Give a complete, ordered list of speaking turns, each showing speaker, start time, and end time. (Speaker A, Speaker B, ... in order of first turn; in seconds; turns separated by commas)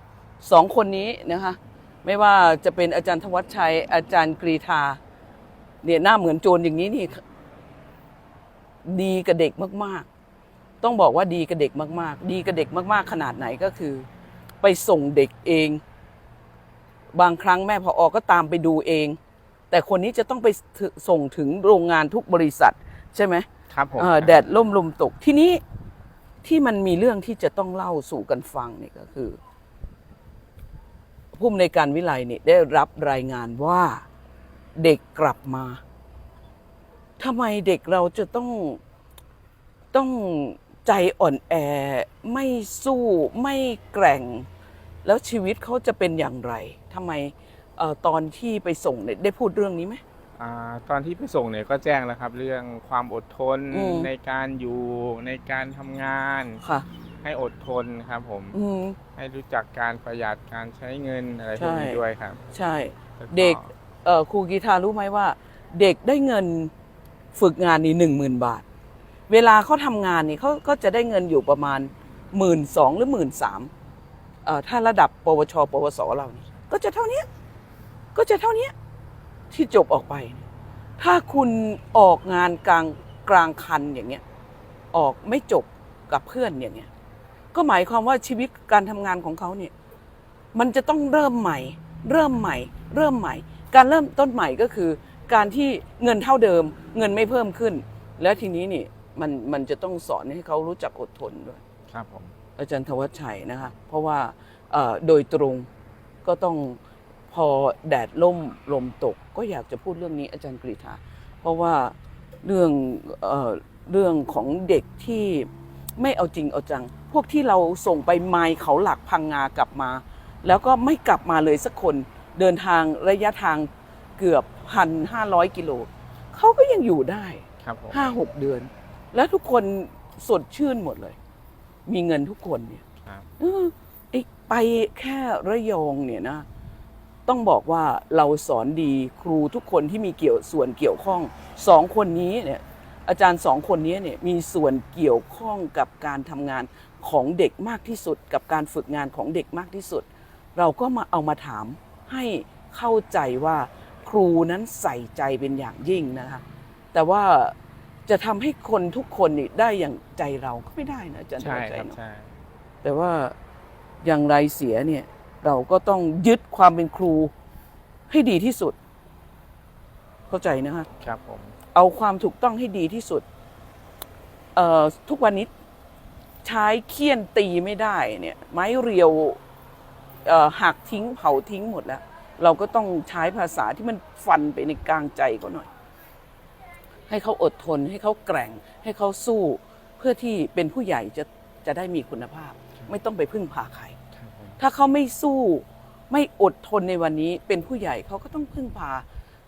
Speaker A: 0.4-5.0, Speaker A: 5.8-7.2, Speaker A: 8.8-10.1, Speaker A: 10.8-14.1, Speaker A: 14.6-15.8, Speaker A: 17.1-19.2, Speaker A: 19.7-23.5, Speaker B: 23.7-24.4, Speaker A: 24.0-25.6, Speaker A: 26.4-29.4, Speaker A: 31.3-34.0, Speaker A: 34.8-35.8, Speaker A: 37.2-38.8, Speaker A: 39.9-44.5, Speaker A: 45.0-50.0, Speaker B: 50.4-56.6, Speaker A: 53.7-54.1, Speaker B: 57.2-58.6, Speaker A: 58.5-59.0, Speaker B: 59.1-62.4, Speaker A: 61.6-62.0, Speaker A: 62.5-66.7, Speaker B: 63.2-63.7, Speaker A: 67.3-68.7, Speaker A: 69.3-73.7, Speaker A: 74.5-77.3, Speaker A: 78.2-78.7, Speaker A: 79.5-80.4, Speaker A: 81.0-84.2, Speaker A: 84.9-86.9, Speaker A: 87.5-89.7, Speaker A: 90.5-101.6, Speaker B: 101.9-102.3, Speaker A: 102.6-105.7, Speaker A: 106.2-106.8, Speaker A: 107.3-131.2, Speaker B: 127.6-128.1, Speaker A: 131.9-132.8, Speaker A: 133.4-136.4, Speaker A: 137.3-156.4, Speaker A: 156.9-157.6, Speaker A: 158.1-162.0, Speaker B: 161.4-162.3, Speaker A: 162.8-163.3, Speaker A: 164.0-167.3, Speaker A: 168.1-168.8, Speaker A: 170.3-170.9, Speaker B: 171.0-171.6, Speaker A: 171.7-173.2, Speaker A: 174.6-175.5, Speaker A: 176.4-179.4, Speaker A: 180.2-185.7, Speaker A: 187.1-194.0, Speaker B: 194.2-194.6, Speaker A: 194.6-199.1